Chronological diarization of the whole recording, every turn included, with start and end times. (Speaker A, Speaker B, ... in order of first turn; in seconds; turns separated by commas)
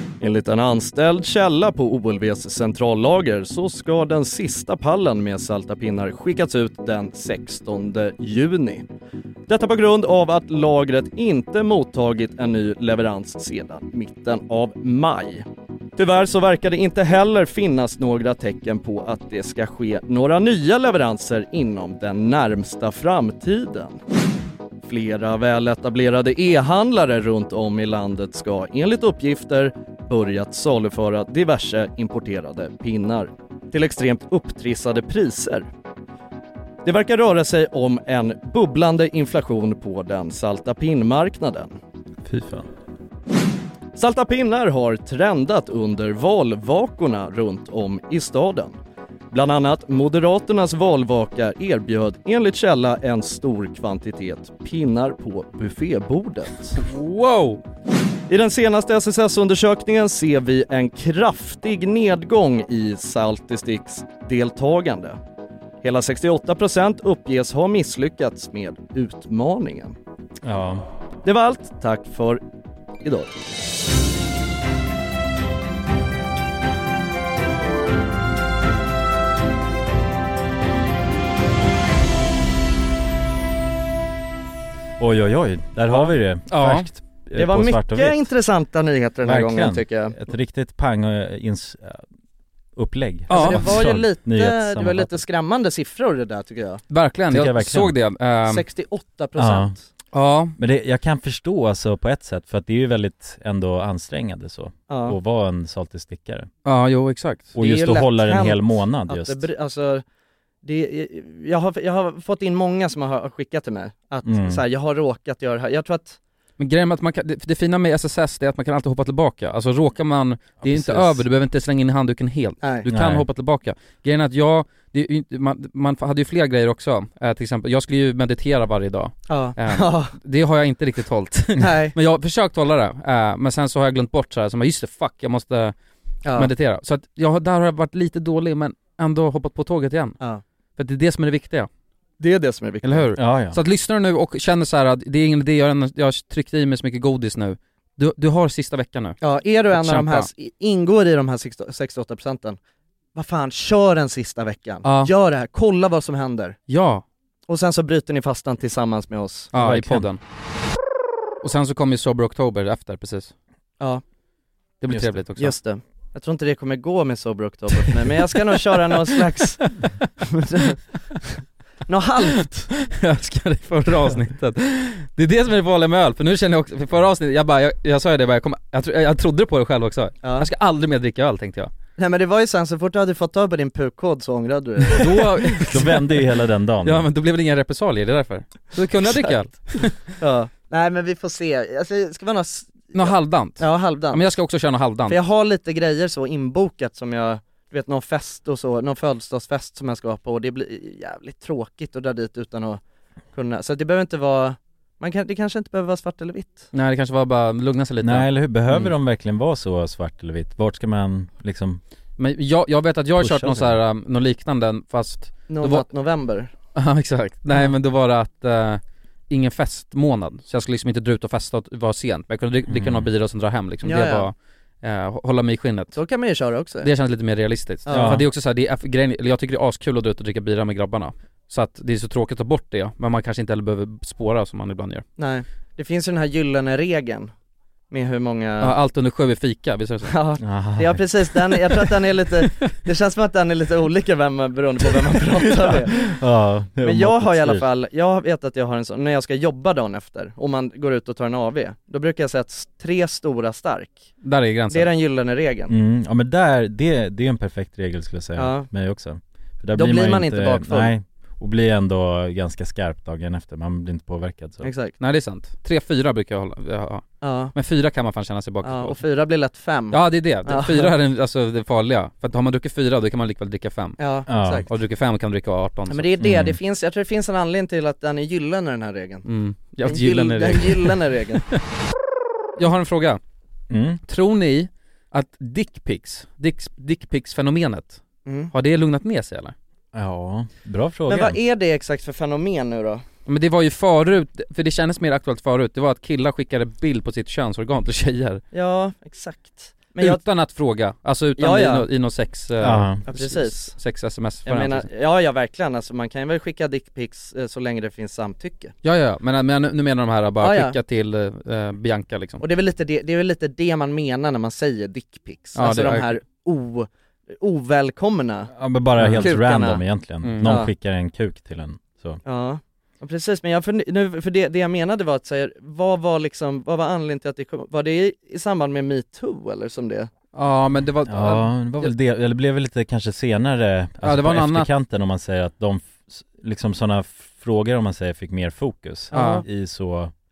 Speaker A: 0.2-8.8, Speaker A: 9.5-15.4, Speaker A: 16.0-24.0, Speaker A: 24.8-35.7, Speaker A: 36.8-41.8, Speaker B: 42.2-42.7, Speaker A: 44.0-48.8, Speaker A: 49.3-56.8, Speaker C: 56.8-57.6, Speaker A: 58.3-65.2, Speaker A: 65.8-70.0, Speaker B: 70.4-70.9, Speaker A: 71.2-72.4, Speaker A: 73.0-73.5, Speaker B: 85.0-88.3, Speaker C: 86.5-86.9, Speaker A: 87.3-90.2, Speaker B: 89.2-92.0, Speaker B: 92.8-95.2, Speaker C: 93.3-93.7, Speaker A: 93.3-96.8, Speaker C: 96.9-98.7, Speaker B: 97.3-98.0, Speaker A: 98.5-99.8, Speaker B: 99.4-99.7, Speaker C: 100.1-100.5, Speaker B: 100.6-106.5, Speaker A: 104.9-105.2, Speaker C: 106.6-107.5, Speaker B: 107.5-109.4, Speaker A: 107.6-110.0, Speaker A: 110.6-116.2, Speaker B: 114.2-114.6, Speaker C: 116.6-135.7, Speaker B: 120.6-121.2, Speaker A: 122.6-122.9, Speaker B: 122.9-123.2, Speaker A: 129.3-130.1, Speaker A: 131.6-131.9, Speaker A: 136.2-136.5, Speaker C: 136.3-140.2, Speaker C: 140.8-141.7, Speaker A: 142.2-143.1, Speaker C: 142.8-150.3, Speaker B: 143.2-143.6, Speaker A: 149.2-152.6, Speaker A: 153.1-156.6, Speaker C: 154.8-155.1, Speaker C: 156.7-157.0, Speaker A: 157.5-159.5, Speaker C: 159.5-160.2, Speaker B: 159.5-160.1, Speaker C: 161.4-163.3, Speaker C: 164.8-165.6, Speaker B: 164.9-165.2, Speaker A: 165.4-170.8, Speaker A: 171.9-172.7, Speaker C: 172.8-181.7, Speaker A: 180.2-180.5, Speaker A: 182.0-185.4, Speaker C: 184.9-186.2, Speaker B: 185.6-187.1, Speaker C: 186.8-190.0, Speaker A: 189.1-189.3, Speaker A: 190.2-194.2, Speaker C: 192.9-195.2, Speaker A: 195.1-202.8, Speaker A: 203.3-206.7, Speaker C: 206.7-208.9, Speaker B: 208.0-211.8, Speaker C: 212.2-215.8, Speaker B: 213.2-213.8, Speaker A: 215.5-216.5, Speaker C: 216.7-226.0, Speaker B: 222.7-223.1, Speaker A: 223.8-224.3, Speaker A: 225.9-226.9, Speaker C: 226.8-235.0, Speaker A: 227.8-228.2, Speaker B: 227.9-228.2, Speaker A: 235.2-237.3, Speaker A: 237.9-238.7, Speaker C: 238.6-240.1, Speaker A: 240.1-246.2, Speaker B: 240.4-241.0, Speaker B: 246.1-247.7, Speaker A: 246.8-254.1, Speaker C: 254.2-254.9, Speaker A: 254.7-255.7, Speaker B: 255.7-264.7, Speaker A: 258.4-258.7, Speaker A: 259.7-260.9, Speaker A: 264.6-264.9, Speaker C: 265.0-269.0, Speaker A: 267.2-267.5, Speaker A: 268.6-270.9, Speaker C: 269.9-274.0, Speaker A: 274.0-274.7, Speaker B: 274.3-274.6, Speaker C: 274.6-276.1, Speaker A: 275.9-279.2, Speaker B: 276.2-276.6, Speaker C: 279.2-280.9, Speaker A: 279.8-281.4, Speaker C: 282.6-283.2, Speaker B: 283.7-284.0, Speaker C: 284.1-289.5, Speaker A: 288.2-288.5, Speaker B: 289.9-291.4, Speaker A: 291.1-293.0, Speaker C: 293.2-298.4, Speaker A: 298.5-300.2, Speaker C: 300.0-304.9, Speaker A: 301.4-301.9, Speaker B: 302.6-303.0, Speaker A: 303.1-303.8, Speaker A: 304.4-308.7, Speaker C: 308.8-312.4, Speaker A: 310.4-310.8, Speaker A: 312.4-318.5, Speaker C: 315.5-316.2, Speaker B: 318.5-322.2, Speaker C: 319.0-319.3, Speaker A: 319.0-319.8, Speaker C: 320.2-320.6, Speaker A: 320.4-320.7, Speaker A: 322.2-330.1, Speaker C: 330.3-331.9, Speaker B: 331.1-340.1, Speaker C: 334.0-334.7, Speaker A: 339.1-339.4, Speaker C: 339.1-339.4